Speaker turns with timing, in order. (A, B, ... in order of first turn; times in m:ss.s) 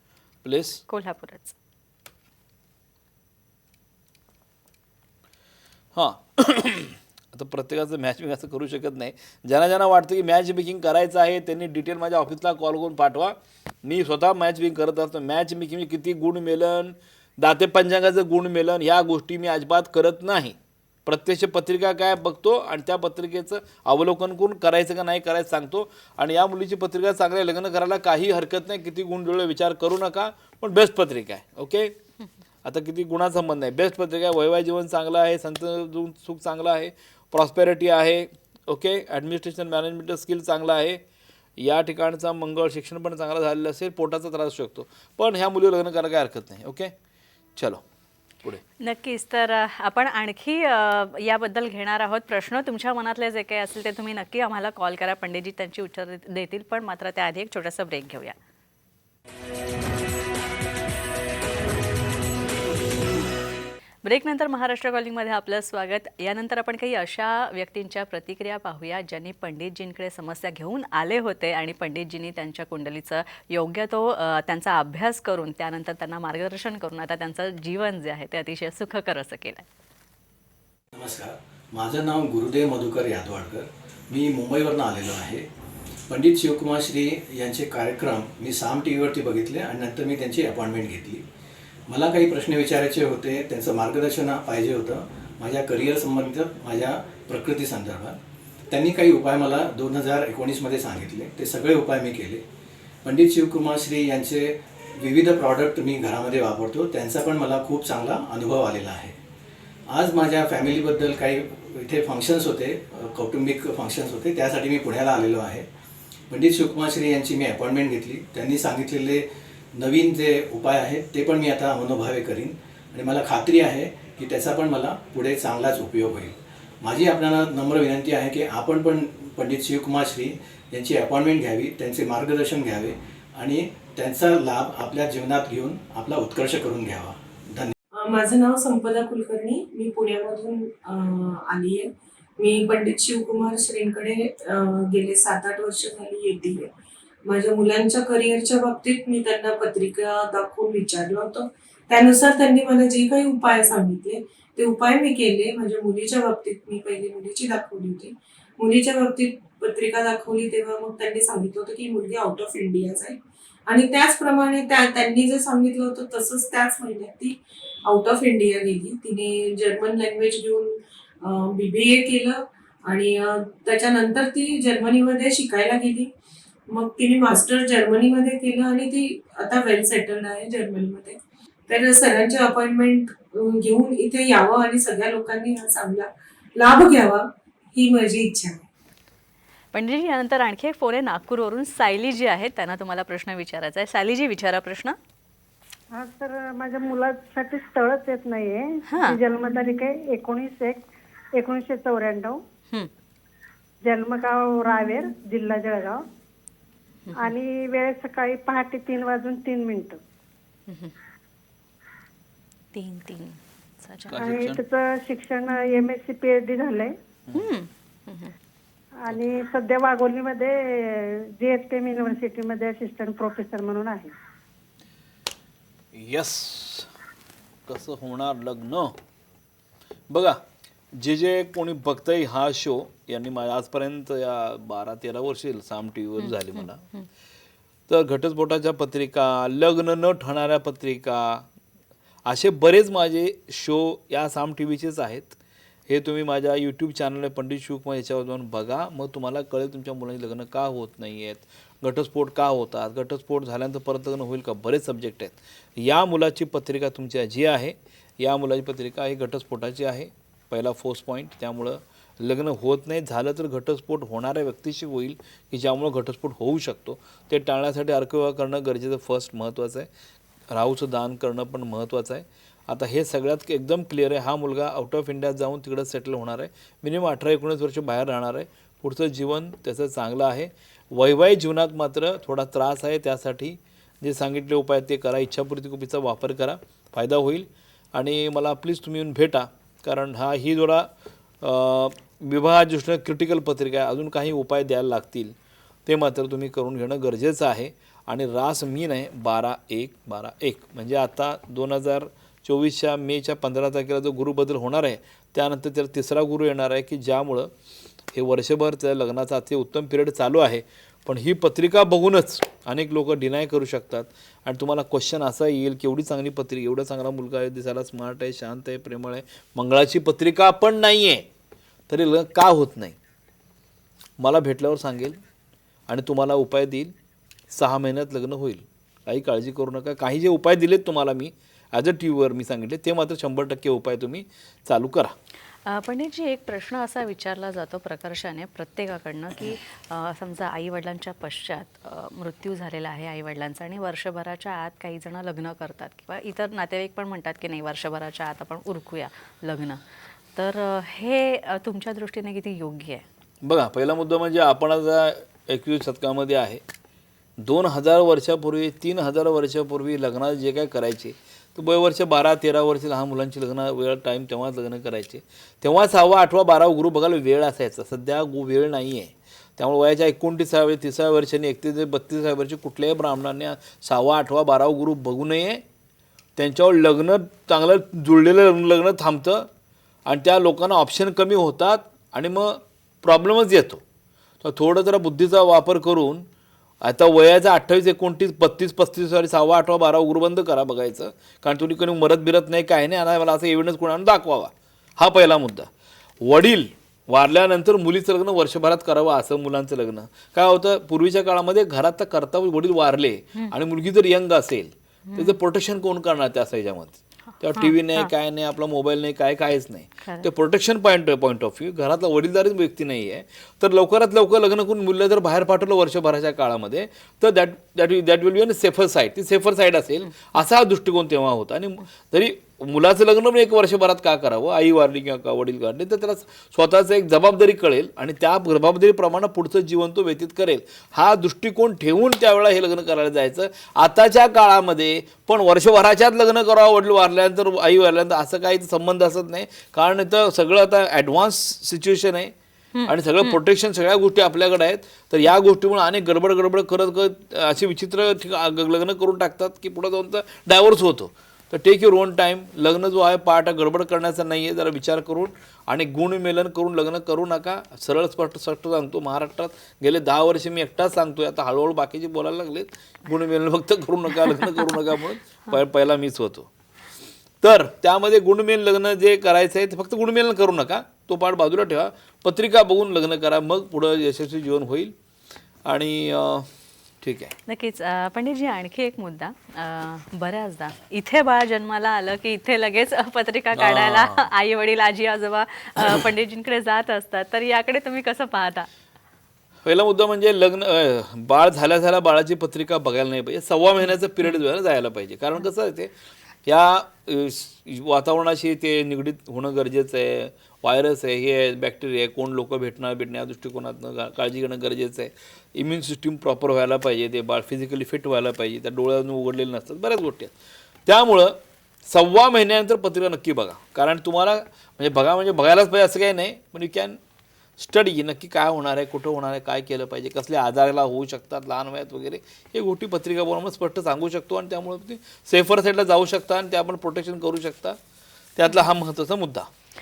0:00.4-0:00.8 A
0:00.9-0:01.6 B
0:05.9-0:31.9 A
0:32.6-0:41.0 A
0:41.6-0:46.9 A
0:47.6-0:47.8 A
0:48.8-0:58.3 B
1:04.0-1:19.6 B
1:21.0-1:25.5 C
1:26.1-1:31.2 C
1:31.9-1:38.2 C
1:38.7-1:42.4 C
1:43.0-1:49.2 C
1:49.9-1:55.7 C
1:56.3-2:17.7 C
2:18.0-2:26.7 D
2:27.2-2:56.1 D
2:56.7-3:08.6 D
3:09.7-3:15.0 B
3:15.9-3:20.8 E
3:18.9-3:19.2 B
3:21.3-3:22.4 E
3:23.8-3:26.0 E
3:27.0-3:27.3 B
3:27.1-3:30.0 E
3:30.7-3:30.9 B
3:32.7-3:34.2 B
3:34.1-3:34.6 A
3:34.1-3:36.9 E
3:37.3-3:38.3 B
3:39.0-3:40.5 E
3:41.4-3:44.1 E
3:45.9-3:46.9 A
3:47.7-3:48.9 A
3:50.1-3:50.4 A
3:51.0-3:56.8 A
3:57.9-4:01.4 A
4:02.2-4:05.4 A
4:05.9-4:29.9 A
4:30.5-4:50.9 A
4:51.4-4:55.3 A
4:55.8-5:07.5 A
5:08.1-5:21.2 A
5:21.9-5:22.9 A
5:24.2-5:25.2 A
5:25.9-5:26.9 A
5:27.5-5:35.1 A
5:35.6-5:49.8 B
5:50.4-5:53.0 B
5:53.4-5:56.6 A
5:57.4-6:15.6 A
6:16.4-6:19.5 A
6:20.0-6:23.8 A
6:24.4-6:26.2 A
6:26.8-6:35.7 A
6:36.2-7:22.3 A
6:45.1-6:45.4 B
6:47.5-6:48.1 B
7:22.8-7:23.3 B
7:22.9-7:46.5 A
7:47.4-7:54.9 A
7:55.6-7:56.5 A
7:57.0-7:57.3 A
7:57.5-8:08.7 B
8:03.5-8:04.3 A
8:09.6-8:15.9 A
8:16.4-8:30.3 A
8:30.8-8:31.3 A
8:31.8-8:37.0 A
8:37.6-8:47.8 A
8:48.4-8:49.5 A